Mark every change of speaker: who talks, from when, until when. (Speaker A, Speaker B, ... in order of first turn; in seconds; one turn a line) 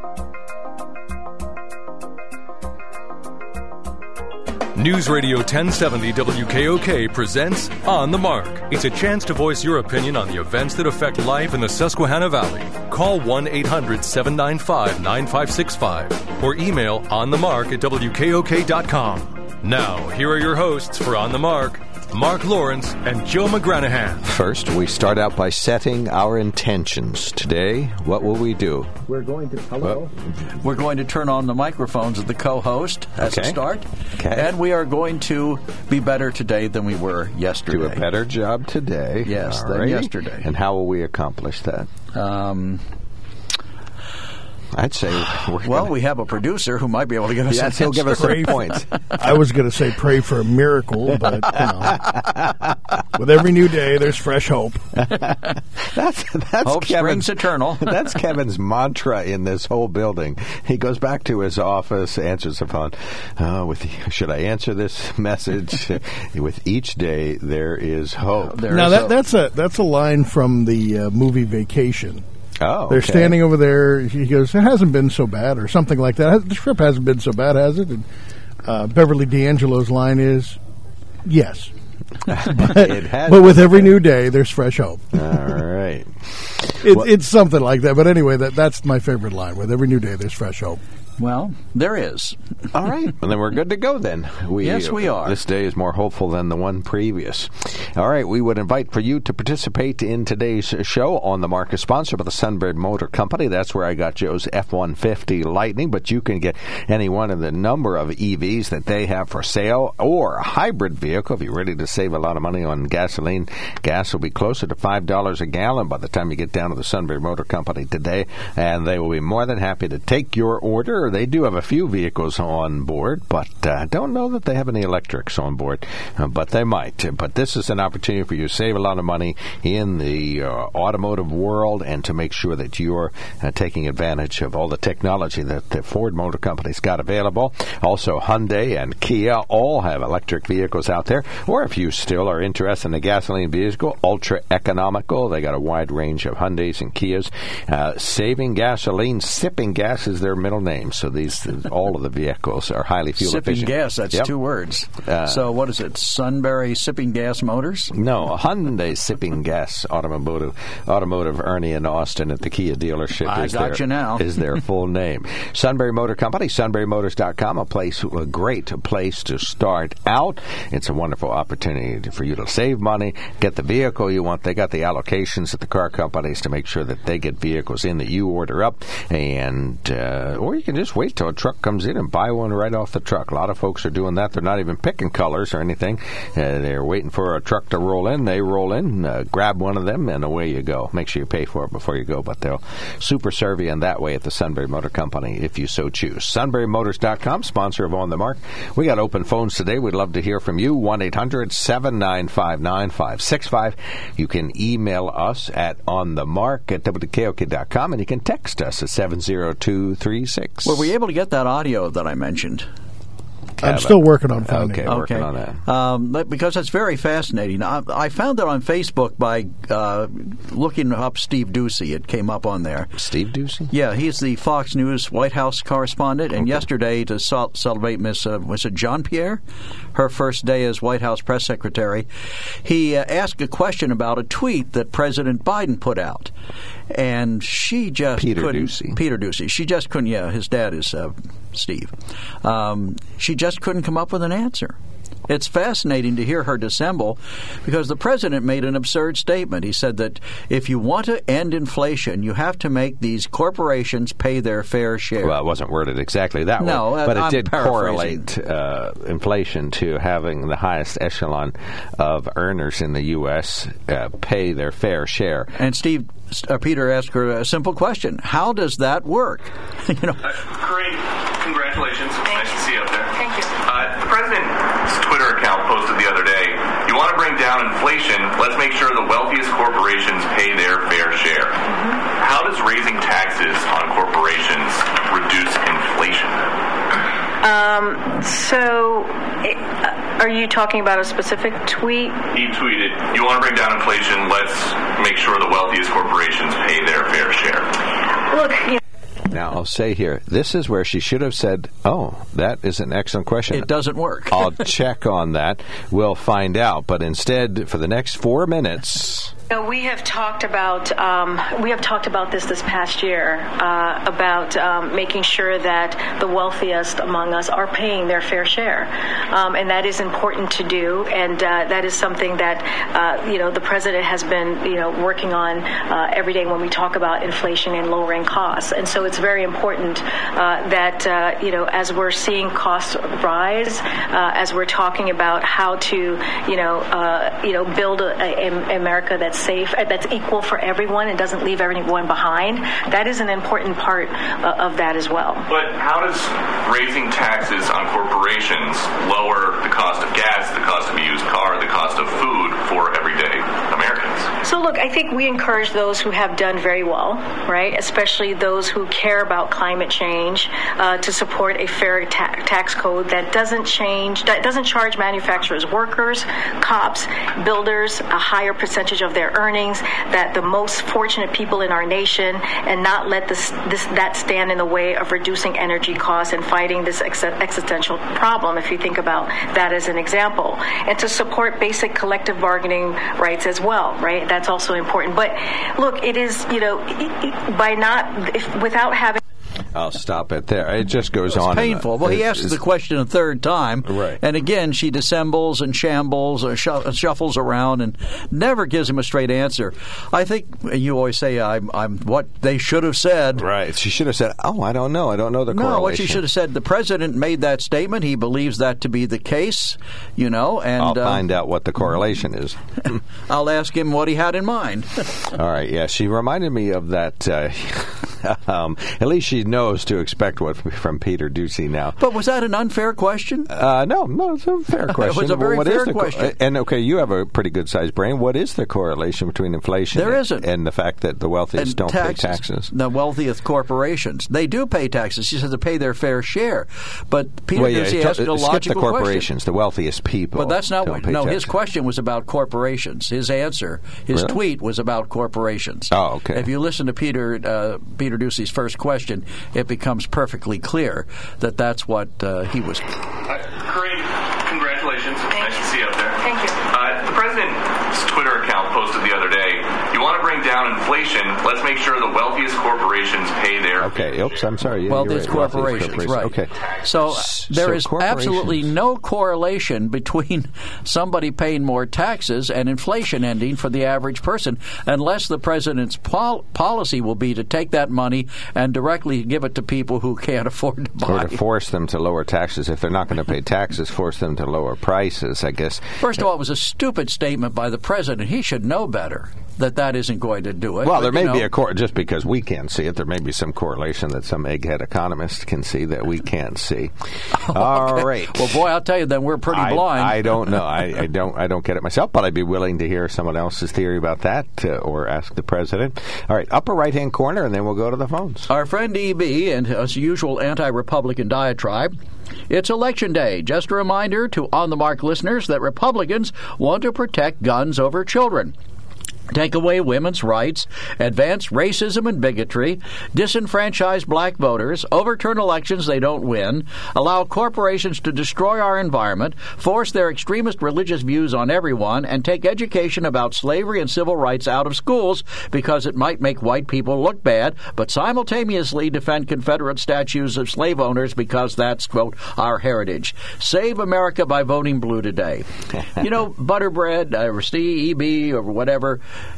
Speaker A: 4.7-24.2
Speaker B: 24.2-28.9
Speaker C: 29.1-38.0
Speaker B: 33.2-33.6
Speaker B: 34.2-34.5
Speaker B: 37.7-41.9
Speaker C: 39.2-40.5
Speaker C: 42.1-42.9
Speaker B: 44.7-45.9
Speaker C: 45.6-48.8
Speaker B: 47.5-48.9
Speaker D: 49.2-52.1
Speaker D: 53.1-54.8
Speaker B: 55.0-68.8
Speaker C: 56.6-57.9
Speaker C: 68.5-69.1
Speaker D: 68.7-72.2
Speaker B: 72.6-73.4
Speaker D: 72.9-78.1
Speaker D: 78.6-80.6
Speaker D: 81.2-81.7
Speaker D: 82.3-85.4
Speaker B: 82.3-84.0
Speaker B: 85.1-87.1
Speaker D: 86.8-90.8
Speaker C: 91.2-92.4
Speaker B: 92.7-154.3
Speaker C: 94.6-95.4
Speaker C: 153.2-157.9
Speaker B: 155.0-155.4
Speaker B: 157.9-210.9
Speaker C: 163.2-164.3
Speaker C: 210.6-212.7
Speaker D: 213.6-214.9
Speaker B: 213.6-215.6
Speaker C: 214.8-222.9
Speaker B: 222.9-223.7
Speaker C: 223.7-229.4
Speaker C: 229.9-232.1
Speaker C: 232.6-236.3
Speaker C: 236.9-244.8
Speaker B: 238.2-239.0
Speaker C: 245.3-255.3
Speaker B: 255.2-265.5
Speaker C: 256.6-258.2
Speaker C: 265.6-270.2
Speaker E: 270.5-281.6
Speaker F: 272.3-272.6
Speaker F: 273.1-273.5
Speaker F: 281.7-282.0
Speaker E: 282.2-286.4
Speaker F: 287.4-292.2
Speaker E: 292.3-297.7
Speaker F: 298.3-298.8
Speaker B: 299.2-303.7
Speaker C: 303.5-304.6
Speaker B: 304.3-309.3
Speaker F: 309.5-345.5
Speaker E: 345.5-354.3
Speaker F: 354.4-389.2
Speaker B: 389.7-392.6
Speaker C: 391.3-403.5
Speaker B: 393.8-394.2
Speaker B: 403.4-406.2
Speaker C: 405.5-411.2
Speaker B: 410.8-413.0
Speaker C: 413.3-415.0
Speaker B: 415.3-422.0
Speaker C: 422.0-423.5
Speaker B: 423.5-432.7
Speaker C: 424.9-426.3
Speaker C: 429.9-430.5
Speaker C: 431.6-439.3
Speaker B: 437.5-441.5
Speaker C: 440.4-452.9
Speaker B: 444.1-444.4
Speaker B: 445.9-446.5
Speaker E: 453.3-464.4
Speaker F: 455.3-455.6
Speaker F: 456.2-456.6
Speaker B: 463.8-468.7
Speaker C: 464.9-481.4
Speaker E: 465.6-466.0
Speaker B: 481.1-486.0
Speaker C: 486.0-491.5
Speaker B: 490.8-498.6
Speaker C: 497.4-500.6
Speaker B: 499.5-508.5
Speaker C: 508.5-511.9
Speaker C: 512.5-518.5
Speaker C: 519.3-549.0